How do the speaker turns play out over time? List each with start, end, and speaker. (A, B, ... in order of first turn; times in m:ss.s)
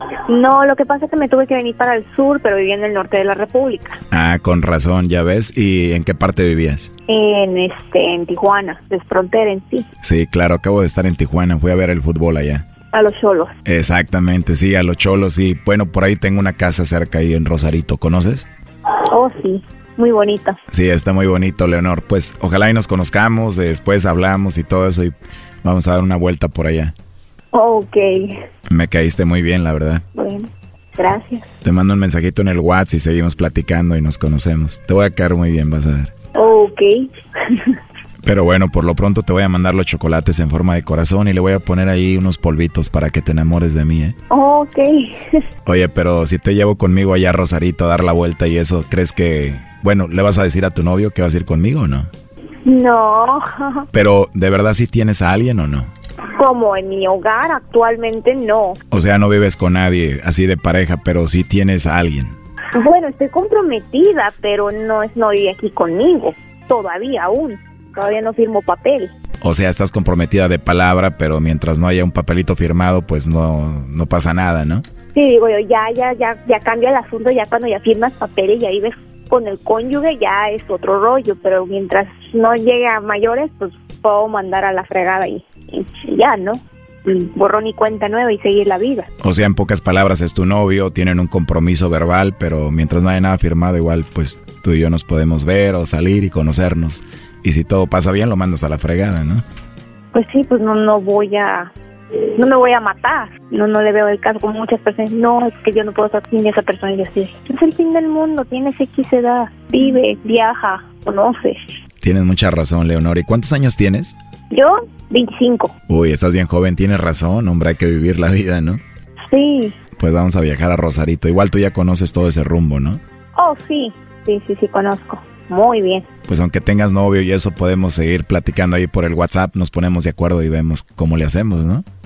0:00.3-0:04.0 A
0:04.1-0:06.9 B
0:07.1-0:09.8 A
0:10.0-0:12.6 B
0:12.9-0:13.5 A
0:13.6-0:18.5 B
0:19.1-0:20.6 A
0:20.7-0:26.9 B
0:27.5-0:28.4 A
0:28.7-0:30.0 B
0:30.1-0:31.4 A
0:31.6-0:36.1 B
0:36.3-0:37.8 A
0:38.2-0:44.2 B
0:44.3-0:45.4 A
0:45.6-0:52.1 B
0:52.6-0:53.8 A
0:53.9-0:55.9 B
0:56.4-0:58.8 A
0:58.9-1:02.3 B
1:02.7-1:09.1 A
1:09.4-1:14.8 B
1:15.1-1:29.1 A
1:29.2-1:39.4 B
1:40.1-1:51.6 A
1:52.0-1:54.1 B
1:54.5-1:55.7 A
1:55.9-1:58.8 B
1:59.3-1:59.8 A
2:00.0-2:03.0 B
2:03.4-2:06.0 A
2:06.3-2:11.8 B